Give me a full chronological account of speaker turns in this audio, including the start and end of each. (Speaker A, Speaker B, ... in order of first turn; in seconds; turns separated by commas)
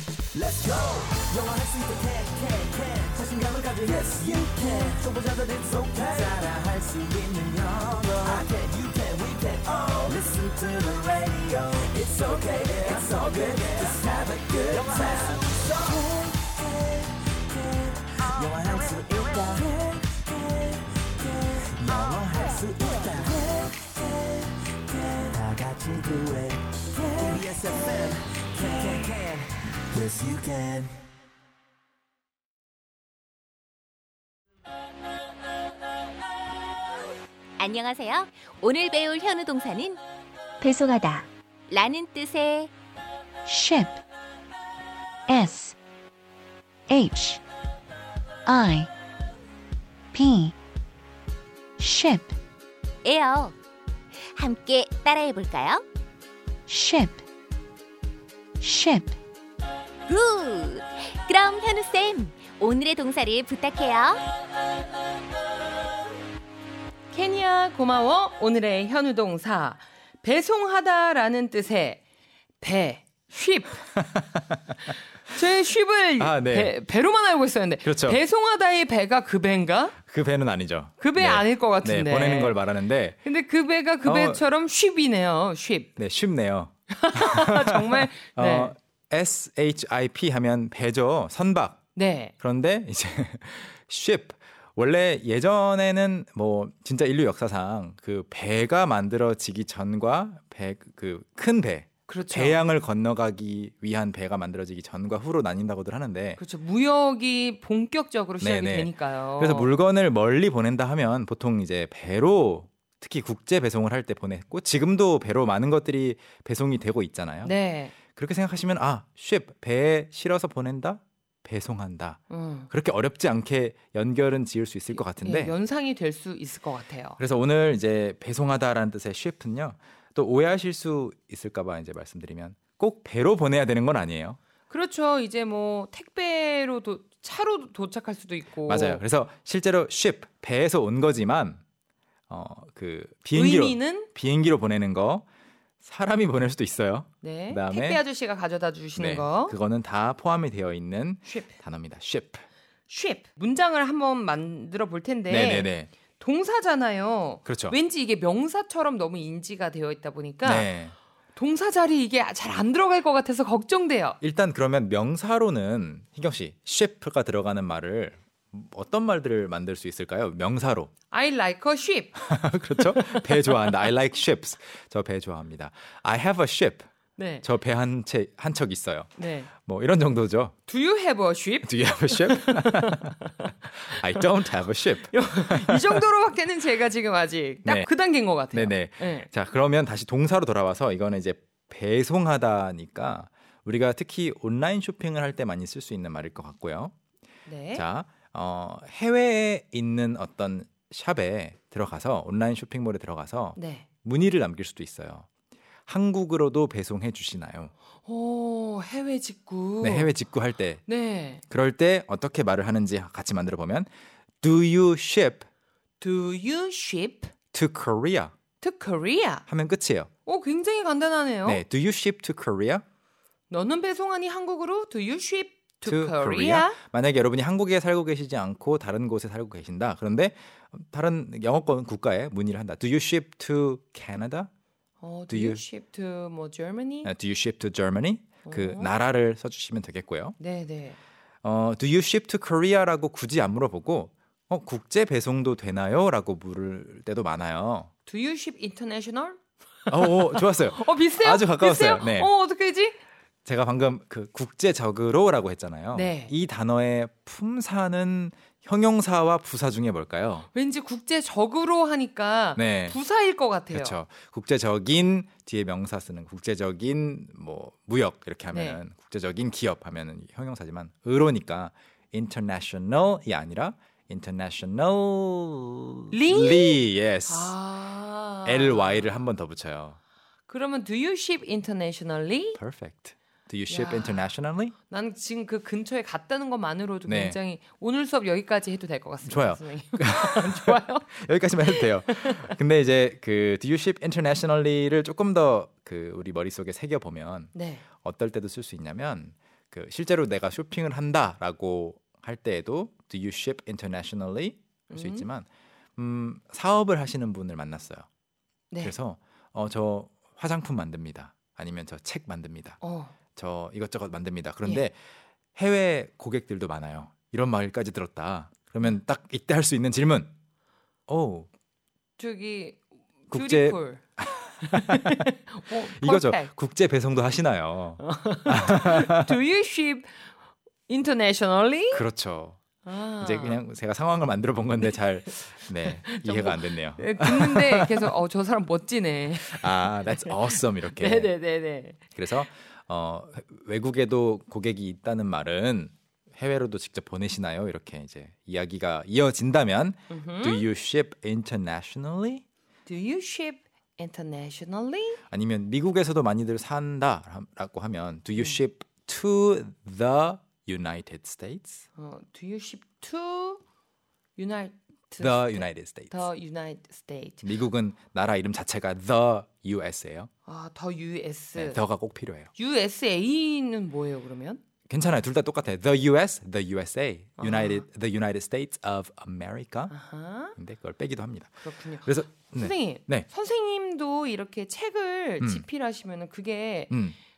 Speaker A: 0.3-24.2, Speaker A: 24.8-30.9, Speaker B: 37.6-40.0, Speaker C: 40.6-41.3, Speaker B: 41.7-42.7, Speaker C: 43.5-44.0, Speaker C: 45.3-45.8, Speaker C: 46.9-47.4, Speaker C: 48.5-48.9, Speaker C: 50.1-50.5, Speaker C: 51.8-52.3, Speaker B: 53.0-53.5, Speaker B: 54.3-55.8, Speaker C: 56.7-57.2, Speaker C: 58.6-59.1, Speaker B: 60.1-64.2, Speaker D: 67.1-72.0, Speaker D: 72.6-73.9, Speaker E: 74.0-74.6, Speaker D: 75.3-80.0, Speaker E: 76.2-76.8, Speaker E: 77.8-78.2, Speaker E: 80.0-83.2, Speaker D: 81.0-82.6, Speaker D: 83.2-85.9, Speaker E: 84.0-84.4, Speaker E: 86.0-91.8, Speaker D: 86.9-88.7, Speaker D: 91.9-92.3, Speaker E: 92.4-106.4, Speaker D: 102.1-102.6, Speaker D: 106.4-109.7, Speaker E: 108.4-125.5, Speaker D: 117.4-117.9, Speaker D: 122.3-122.7, Speaker D: 125.0-127.2, Speaker E: 127.2-134.4, Speaker D: 134.7-139.0, Speaker E: 138.7-141.6, Speaker E: 142.3-145.2, Speaker D: 143.3-144.1, Speaker E: 145.8-148.0, Speaker D: 147.2-149.6, Speaker E: 148.9-152.4, Speaker D: 151.2-151.5, Speaker D: 152.9-160.7, Speaker E: 155.3-155.9, Speaker E: 157.4-157.8, Speaker E: 160.4-160.9, Speaker D: 161.3-164.2, Speaker E: 164.2-170.9, Speaker D: 171.1-173.9, Speaker E: 172.2-176.9, Speaker D: 177.2-177.5, Speaker E: 177.4-180.5, Speaker D: 179.2-179.5, Speaker D: 180.7-184.2, Speaker E: 181.6-186.0, Speaker D: 185.1-189.3, Speaker E: 188.5-196.9, Speaker D: 197.4-197.8, Speaker E: 197.7-205.3, Speaker D: 203.6-203.8, Speaker E: 205.9-207.7, Speaker D: 208.0-210.1, Speaker E: 209.8-210.8, Speaker D: 210.8-211.4, Speaker E: 211.5-213.9, Speaker E: 214.4-215.5, Speaker D: 216.0-217.3, Speaker E: 217.5-218.3, Speaker D: 218.6-219.4, Speaker E: 219.5-220.1, Speaker D: 220.2-221.6, Speaker E: 221.4-222.8, Speaker D: 223.5-226.8, Speaker E: 225.8-234.5, Speaker D: 235.0-237.1, Speaker E: 235.3-235.6, Speaker E: 237.0-240.4, Speaker D: 238.4-238.9, Speaker D: 240.4-241.0, Speaker E: 241.4-247.9, Speaker D: 248.1-253.0, Speaker E: 249.9-252.3, Speaker E: 253.4-260.5, Speaker D: 255.9-256.3, Speaker D: 260.5-263.9, Speaker E: 262.6-263.0, Speaker E: 263.7-277.6, Speaker D: 268.5-268.8, Speaker D: 276.1-279.1, Speaker E: 278.4-280.0, Speaker D: 280.5-282.6, Speaker E: 282.5-284.7, Speaker D: 283.7-284.2, Speaker D: 284.9-292.4, Speaker E: 287.1-287.4, Speaker E: 289.2-308.1, Speaker D: 297.5-297.8, Speaker D: 304.9-305.3, Speaker D: 308.7-309.0, Speaker E: 308.8-312.8, Speaker D: 312.8-313.1, Speaker E: 313.4-315.0, Speaker E: 315.6-320.3, Speaker E: 321.1-321.5, Speaker D: 322.2-324.0, Speaker E: 323.3-325.3, Speaker D: 324.7-326.5, Speaker E: 325.9-329.3, Speaker D: 328.0-330.3, Speaker D: 330.9-332.0, Speaker E: 331.9-332.6, Speaker D: 332.8-333.6, Speaker E: 333.2-338.1, Speaker D: 335.8-342.1, Speaker E: 339.4-341.3, Speaker E: 342.1-352.4, Speaker D: 350.1-350.6, Speaker D: 352.9-355.2, Speaker E: 355.3-361.8, Speaker D: 361.9-363.6, Speaker D: 364.4-367.4, Speaker E: 365.2-366.2, Speaker E: 367.4-370.3, Speaker D: 370.4-371.8, Speaker E: 371.6-372.5, Speaker D: 372.5-374.6, Speaker E: 374.9-379.9, Speaker D: 377.4-377.8, Speaker D: 379.9-380.6, Speaker E: 380.6-383.3, Speaker D: 381.6-386.9, Speaker E: 385.4-385.6, Speaker E: 386.9-387.1